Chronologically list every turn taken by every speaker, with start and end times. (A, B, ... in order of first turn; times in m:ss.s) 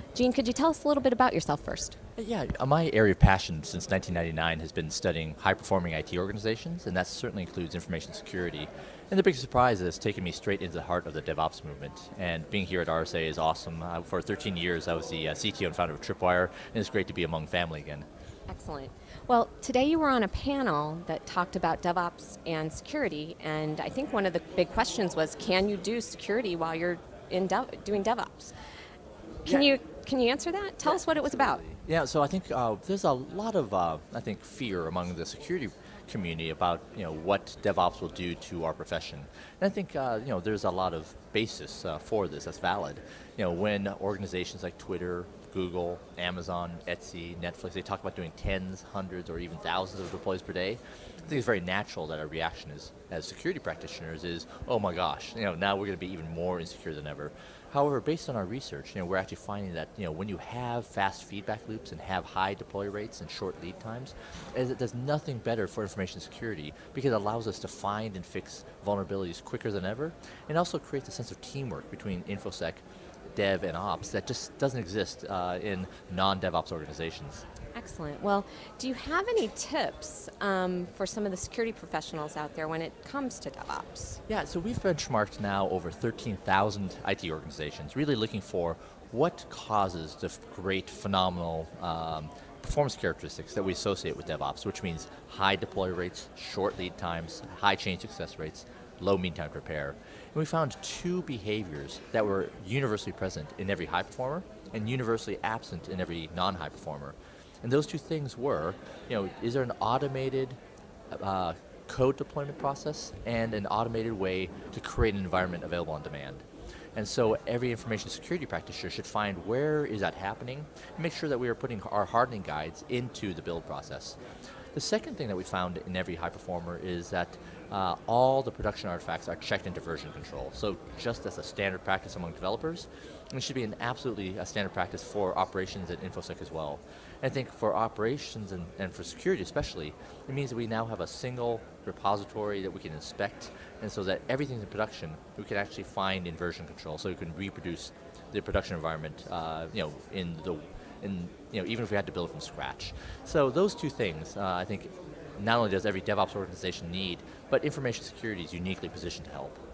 0:00.2-0:02.0 A
0:02.2-0:18.1 B
0:18.5-0:28.5 A
0:29.4-0:29.7 B
0:29.4-0:31.7 A
0:30.8-1:12.8 B
1:13.3-1:17.4 B
1:17.8-1:24.2 A
1:24.3-1:50.6 B
1:51.1-1:56.4 B
1:57.0-2:04.2 B
2:04.7-2:39.6 B